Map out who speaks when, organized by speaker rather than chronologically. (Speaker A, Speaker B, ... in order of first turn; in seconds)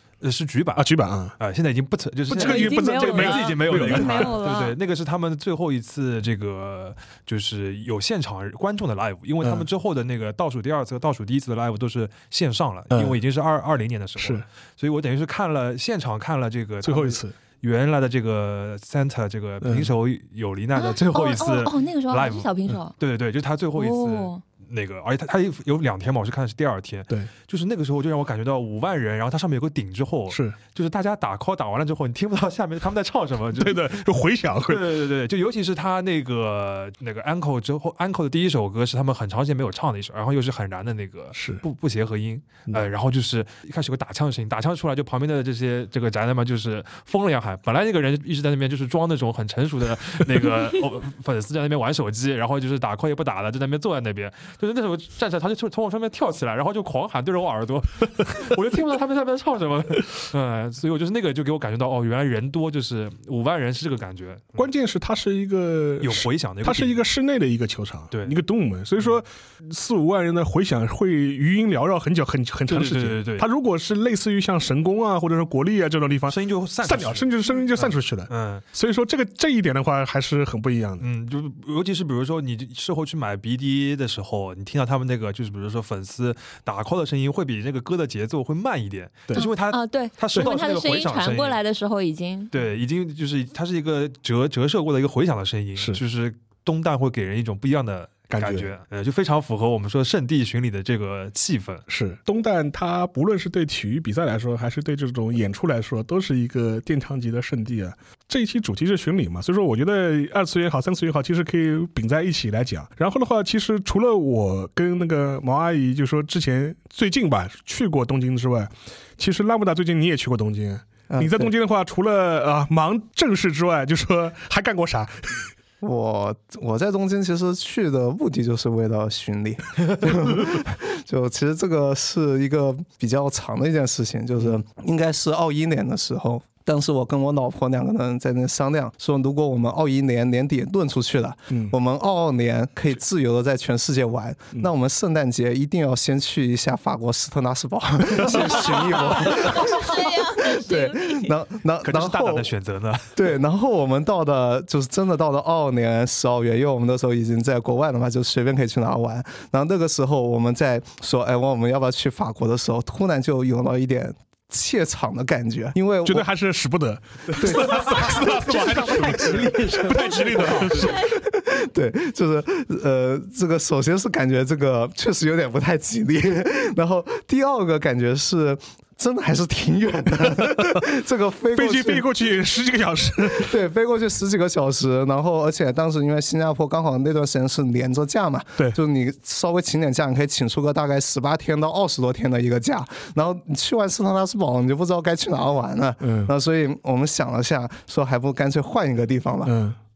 Speaker A: 0.2-34.0, 34.6-64.7, 66.0-67.0, 68.1-68.4, 72.7-73.5, 76.3-78.6, 81.0-91.6, 92.5-101.8, 151.8-153.1, 169.3-169.6
Speaker B: 0.8-1.4, 2.3-4.4, 9.4-9.7, 12.9-13.2, 14.2-14.4, 16.8-17.3, 19.6-19.9, 30.3-30.6, 33.6-35.0, 41.3-41.6, 64.6-81.0, 98.3-98.7, 101.9-125.5, 166.0-171.1, 181.6-183.6, 196.0-196.3, 199.4-199.8
Speaker C: 2.3-4.8, 20.7-22.9, 23.7-24.4, 89.3-92.5, 148.3-151.3, 170.8-171.2
Speaker D: 121.1-121.5, 125.8-152.5, 153.1-166.3, 167.3-182.1, 183.2-199.5